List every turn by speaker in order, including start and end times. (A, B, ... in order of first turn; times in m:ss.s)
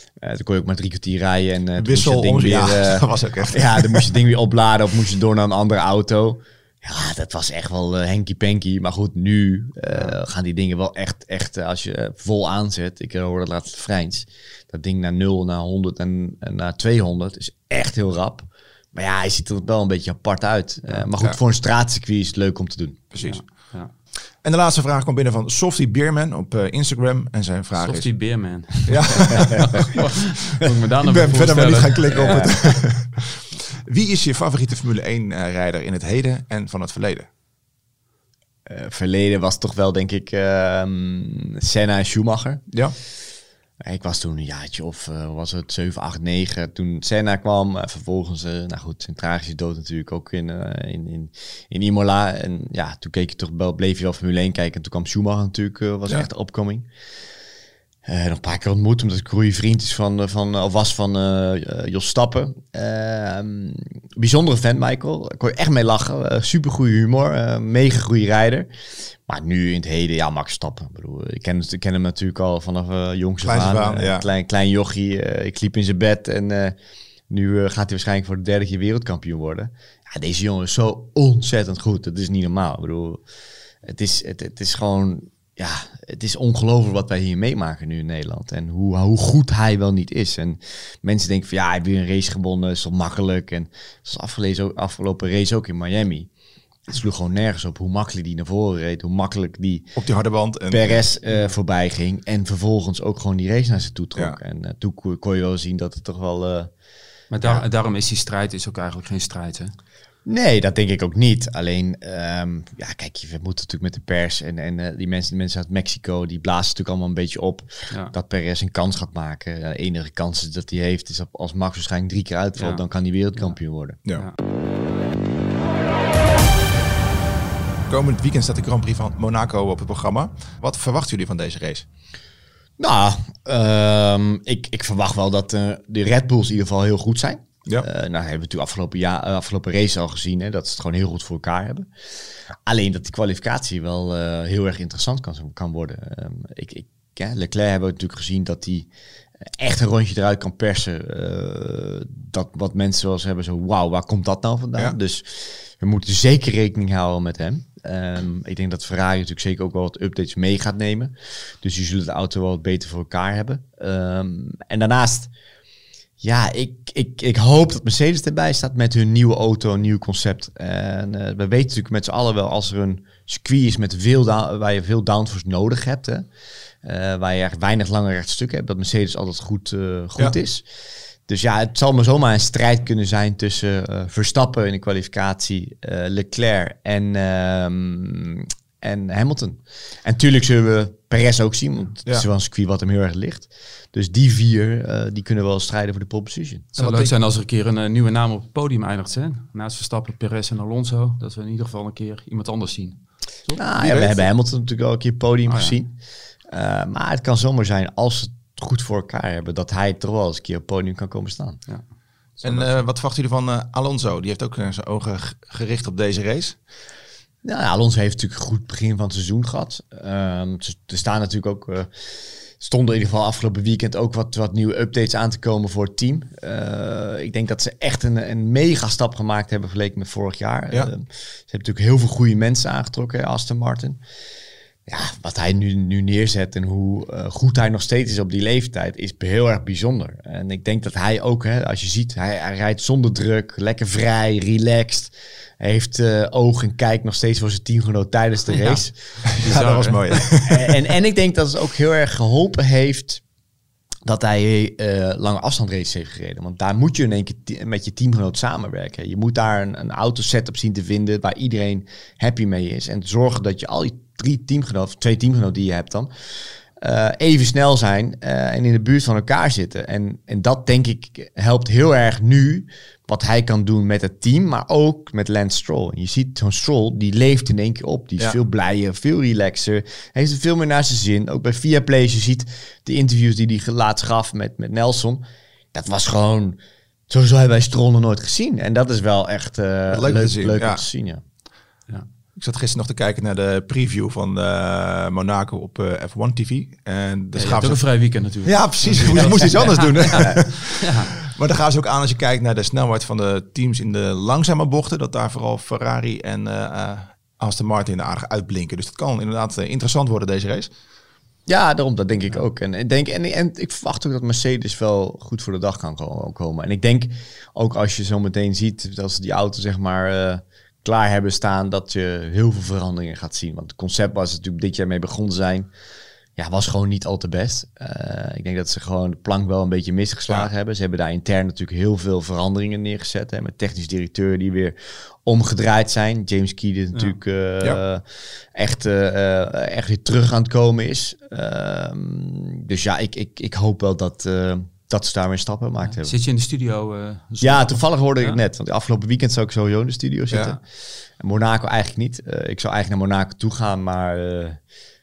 0:00.2-0:23.1 A
0:01.8-0:04.1 B
0:23.1-0:23.4 B
0:23.2-0:23.9 C
0:24.4-0:28.1 B
0:27.8-0:32.6 C
0:28.9-0:30.0 B
0:31.0-0:37.3 B
0:32.1-0:32.5 A
0:38.6-0:42.7 A
0:43.8-0:56.9 A
0:58.1-1:08.7 A
1:09.3-1:16.8 A
1:13.4-1:14.3 B
1:17.3-1:23.2 A
1:23.8-1:36.3 A
1:36.9-1:39.9 A
1:39.9-1:41.0 B
1:40.7-1:46.7 A
1:47.3-1:49.7 C
1:50.2-2:04.0 A
2:02.6-2:02.8 C
2:04.1-2:04.4 C
2:07.9-2:11.9 B
2:12.8-2:21.9 A
2:22.6-2:28.9 A
2:29.5-2:45.3 A
2:46.2-2:56.3 A
2:56.8-3:00.6 A
3:01.3-3:16.7 A
3:16.8-3:23.6 C
3:16.8-3:17.1 B
3:23.6-3:26.0 A
3:23.7-3:24.2 B
3:25.5-3:25.8 C
3:26.5-3:31.6 A
3:32.4-3:32.8 A
3:32.4-3:36.6 B
3:37.4-3:54.0 A
3:54.9-4:09.2 A
4:08.6-4:10.2 C
4:09.4-4:10.8 B
4:10.4-4:13.2 A
4:14.1-4:51.2 A
4:49.9-4:50.8 B
4:52.4-4:57.8 B
4:57.4-5:01.2 C
4:58.4-5:10.7 B
5:11.5-5:25.7 A
5:26.4-5:46.1 A
5:45.8-5:48.4 C
5:47.4-5:50.6 A
5:50.3-5:50.6 B
5:51.2-5:54.6 A